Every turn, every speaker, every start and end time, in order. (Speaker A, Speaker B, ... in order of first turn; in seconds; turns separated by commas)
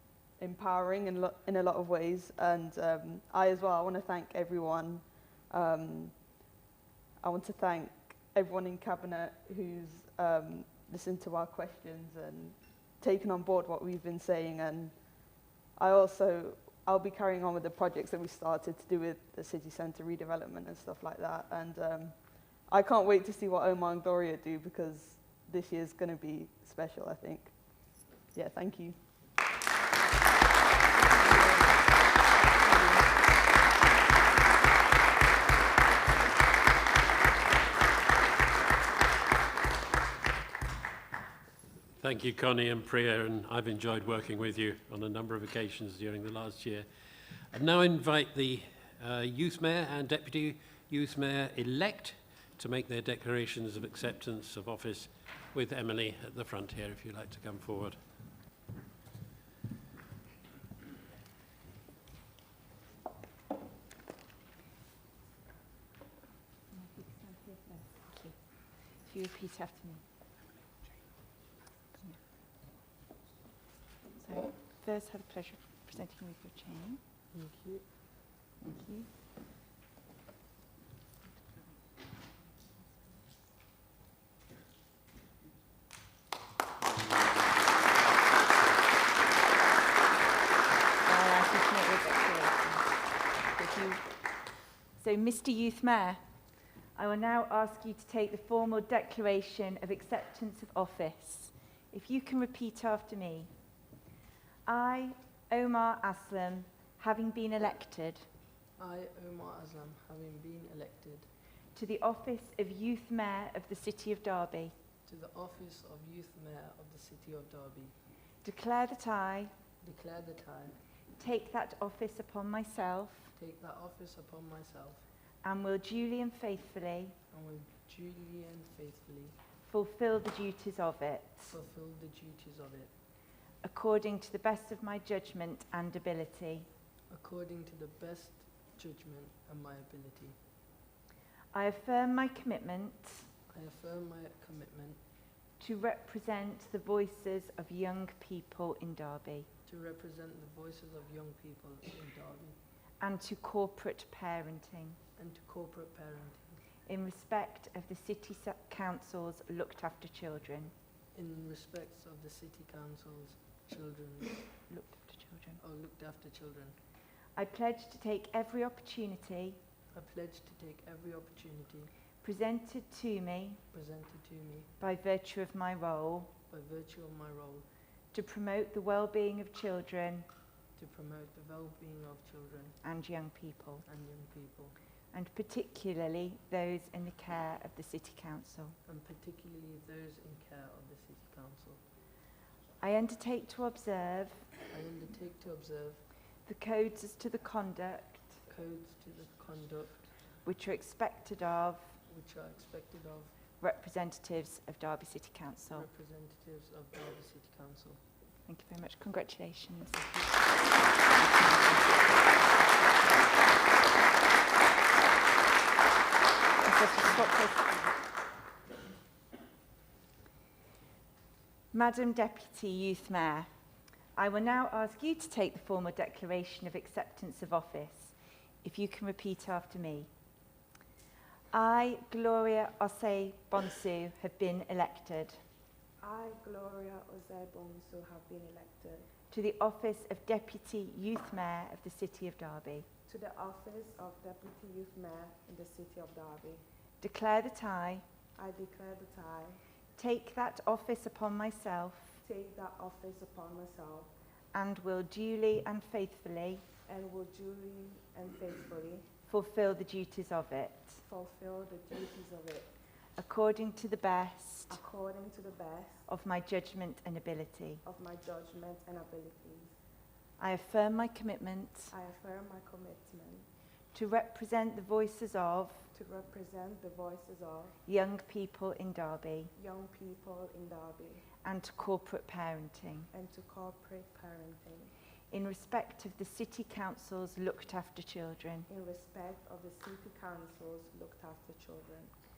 Speaker A: 0.4-6.5, Speaker A: 7.2-29.0, Speaker B: 31.2-31.9, Speaker B: 32.6-33.0, Speaker C: 42.0-58.0, Speaker D: 66.7-68.3, Speaker D: 69.0-70.0, Speaker D: 74.2-77.0, Speaker B: 77.3-77.8, Speaker D: 78.6-79.1, Speaker D: 91.0-94.0, Speaker D: 95.0-96.2, Speaker D: 97.0-103.5, Speaker D: 104.7-108.3, Speaker B: 108.8-111.3, Speaker D: 111.7-114.7, Speaker B: 115.0-118.0, Speaker D: 118.4-119.5, Speaker B: 119.8-120.8, Speaker D: 121.2-123.3, Speaker B: 123.3-125.0, Speaker D: 125.4-127.2, Speaker B: 127.3-129.3, Speaker D: 129.6-131.5, Speaker B: 131.5-132.9, Speaker D: 133.6-136.7, Speaker B: 137.1-140.4, Speaker D: 141.5-143.3, Speaker B: 143.5-145.0, Speaker D: 145.6-149.5, Speaker B: 149.7-152.6, Speaker D: 153.0-155.0, Speaker B: 155.2-156.6, Speaker D: 156.9-160.7, Speaker B: 161.1-164.6, Speaker D: 164.7-165.6, Speaker B: 165.6-166.8, Speaker D: 167.3-169.6, Speaker B: 169.9-171.9, Speaker D: 172.2-173.6, Speaker B: 173.7-174.7, Speaker D: 174.8-176.3, Speaker B: 176.5-177.7, Speaker D: 178.1-180.3, Speaker B: 180.8-182.8, Speaker D: 182.8-183.8, Speaker B: 183.8-184.8, Speaker D: 185.1-188.8, Speaker B: 188.8-191.8, Speaker D: 192.8-194.5, Speaker B: 194.7-196.0, Speaker D: 196.4-198.4, Speaker B: 198.5-200.1, Speaker D: 200.4-201.9, Speaker B: 202.1-203.3, Speaker D: 203.6-205.9, Speaker B: 205.7-208.0, Speaker D: 208.4-210.0, Speaker D: 211.2-211.9, Speaker D: 216.6-217.9, Speaker D: 221.7-223.5, Speaker D: 224.1-230.1, Speaker D: 231.5-235.4, Speaker E: 236.0-239.1, Speaker D: 239.3-242.8, Speaker E: 243.1-246.6, Speaker D: 247.0-248.0, Speaker E: 248.3-249.6, Speaker D: 250.0-252.2, Speaker E: 252.2-254.1, Speaker D: 254.5-256.6, Speaker E: 256.9-259.1, Speaker D: 259.3-261.0, Speaker E: 261.0-262.7, Speaker D: 263.2-264.8, Speaker E: 264.7-266.1, Speaker D: 266.1-267.8, Speaker E: 267.8-269.7, Speaker D: 270.4-271.9, Speaker E: 271.9-273.5, Speaker D: 273.9-275.9, Speaker E: 275.9-277.8, Speaker D: 277.8-279.5, Speaker E: 279.5-281.3, Speaker D: 281.4-283.1, Speaker E: 283.1-284.9, Speaker D: 285.3-288.7, Speaker E: 288.7-292.1